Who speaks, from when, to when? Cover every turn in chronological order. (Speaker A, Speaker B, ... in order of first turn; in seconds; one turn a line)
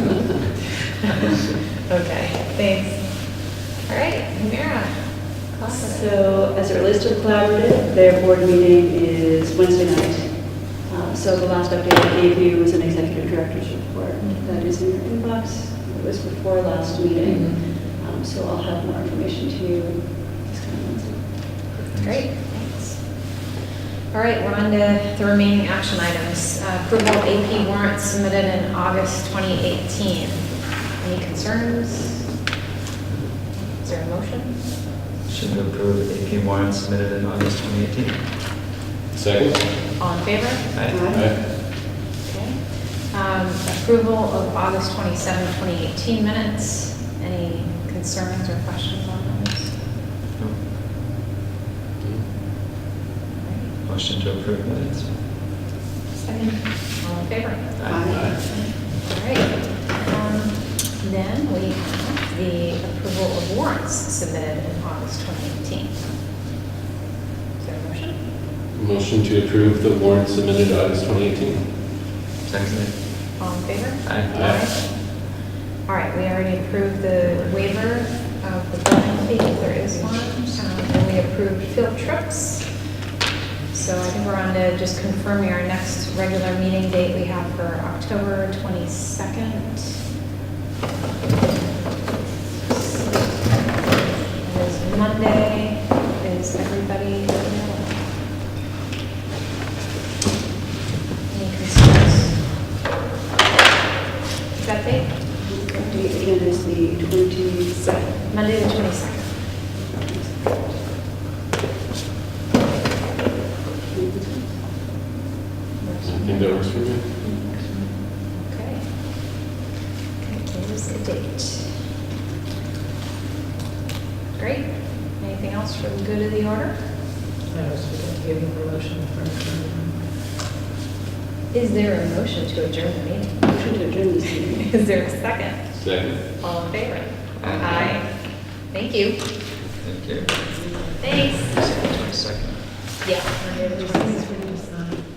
Speaker A: 1.9-6.1
Speaker B: 5.7-21.4
Speaker A: 14.2-14.7
Speaker C: 21.7-22.2
Speaker A: 22.0-23.5
Speaker A: 24.1-32.4
Speaker A: 33.5-34.6
Speaker C: 35.3-38.3
Speaker D: 39.1-39.7
Speaker A: 40.0-40.7
Speaker C: 40.7-41.1
Speaker B: 40.9-41.2
Speaker D: 41.1-41.5
Speaker A: 42.2-49.8
Speaker D: 52.0-52.3
Speaker A: 53.3-53.7
Speaker C: 53.8-55.1
Speaker A: 56.2-66.1
Speaker C: 57.8-58.3
Speaker B: 57.9-58.7
Speaker D: 58.1-58.4
Speaker A: 67.6-68.2
Speaker D: 68.7-71.7
Speaker C: 72.4-74.5
Speaker A: 73.4-82.9
Speaker D: 74.3-74.7
Speaker C: 77.3-77.6
Speaker A: 83.7-90.1
Speaker A: 91.4-93.2
Speaker A: 94.3-98.1
Speaker A: 101.3-102.5
Speaker A: 104.5-105.2
Speaker B: 105.4-108.0
Speaker A: 107.7-109.5
Speaker B: 109.7-110.8
Speaker B: 113.9-114.6
Speaker A: 115.8-116.6
Speaker D: 116.0-117.1
Speaker A: 118.3-119.3
Speaker A: 120.2-121.9
Speaker A: 124.3-126.9
Speaker E: 127.5-129.9
Speaker A: 131.5-139.2
Speaker B: 133.5-134.7
Speaker D: 135.7-136.3
Speaker C: 137.4-138.0
Speaker C: 139.7-140.4
Speaker A: 141.0-141.6
Speaker C: 141.2-142.8
Speaker A: 143.0-143.6
Speaker B: 143.6-144.9